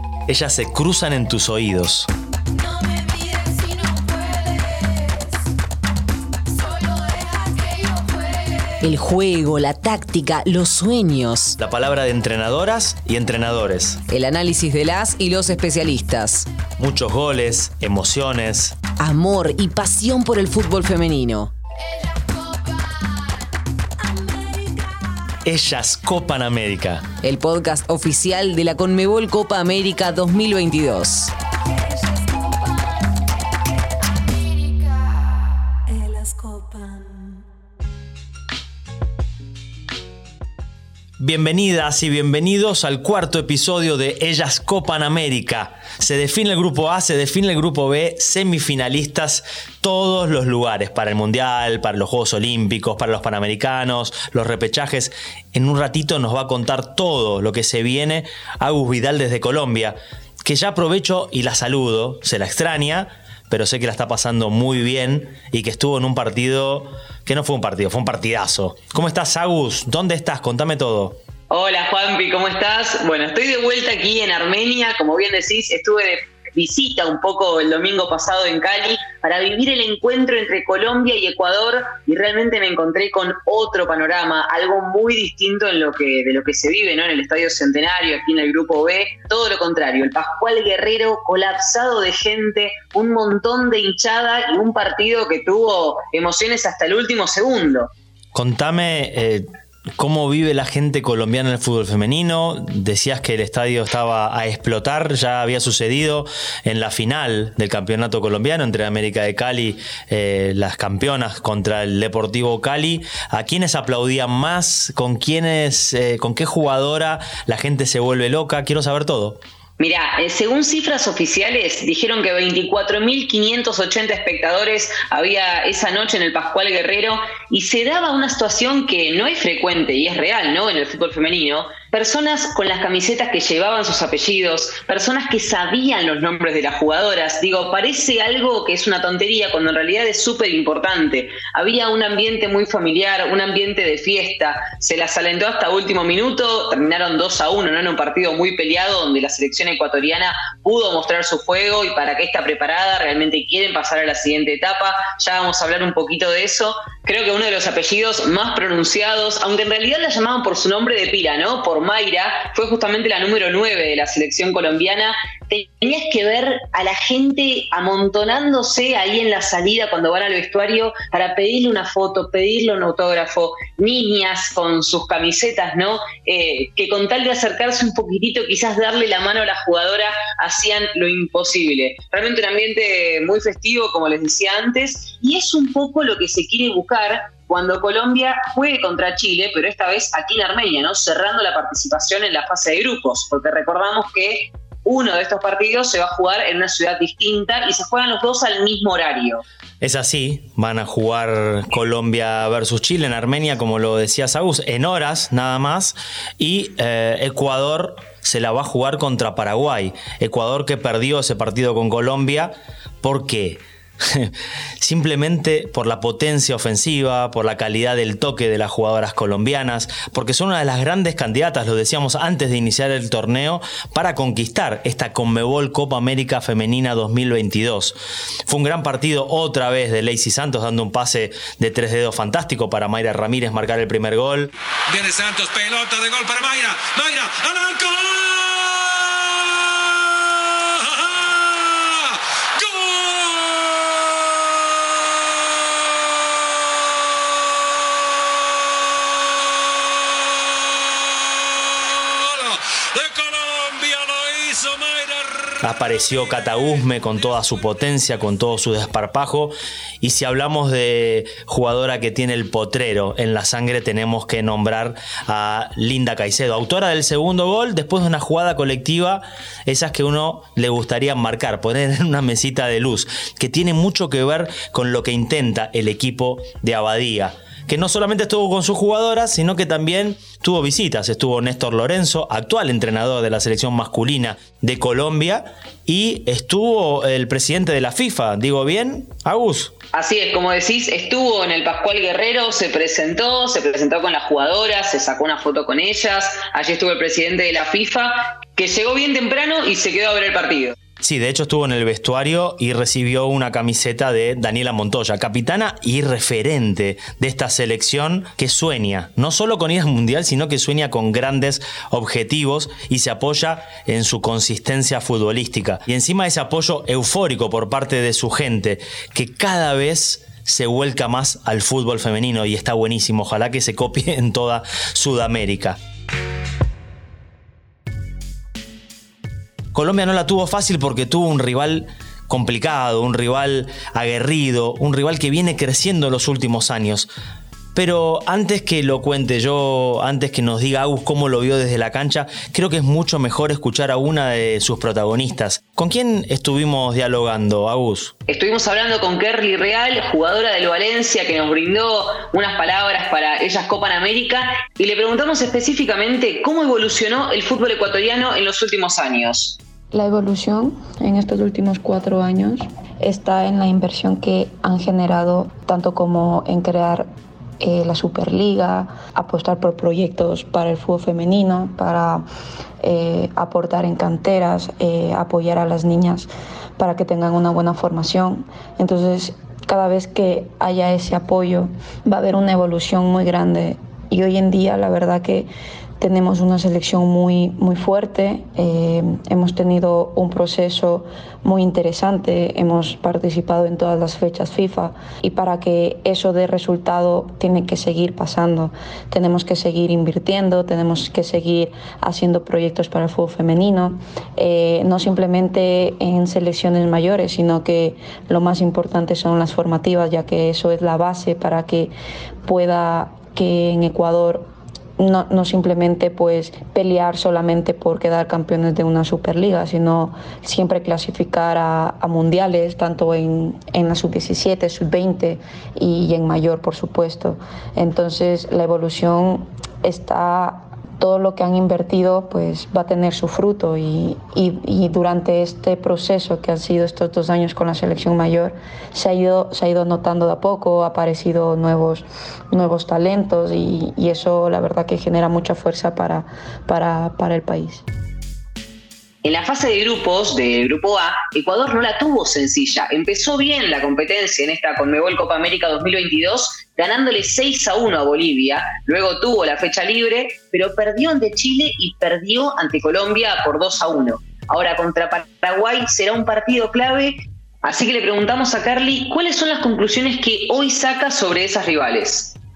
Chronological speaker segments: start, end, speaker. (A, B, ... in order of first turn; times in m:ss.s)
0:00.3-0:02.1 A
0:08.8-0:11.6 B
0:11.6-0:14.0 A
0:14.1-0:16.5 B
0:16.8-0:18.8 A
0:19.0-0:21.5 B
0:25.4-0:27.0 A
0:27.2-0:31.3 B
0:35.9-0:36.8 B
0:41.2-1:11.2 A
1:11.5-1:37.9 C
1:38.3-1:39.4 A
1:40.0-1:59.4 A
1:59.8-3:19.4 C
3:19.8-3:47.9 A
3:48.5-3:54.5 A
3:54.9-4:05.1 D
4:09.4-4:15.6 D
4:15.6-4:49.7 A
4:16.3-4:16.9 D
4:49.9-5:00.7 C
5:01.0-5:25.8 A
5:29.7-5:37.1 A
5:37.7-5:48.1 A
5:48.3-5:59.6 C
5:59.9-6:07.1 E
6:07.6-6:12.2 E
6:12.8-6:51.9 E
6:52.4-7:27.8 E
7:29.2-7:52.3 C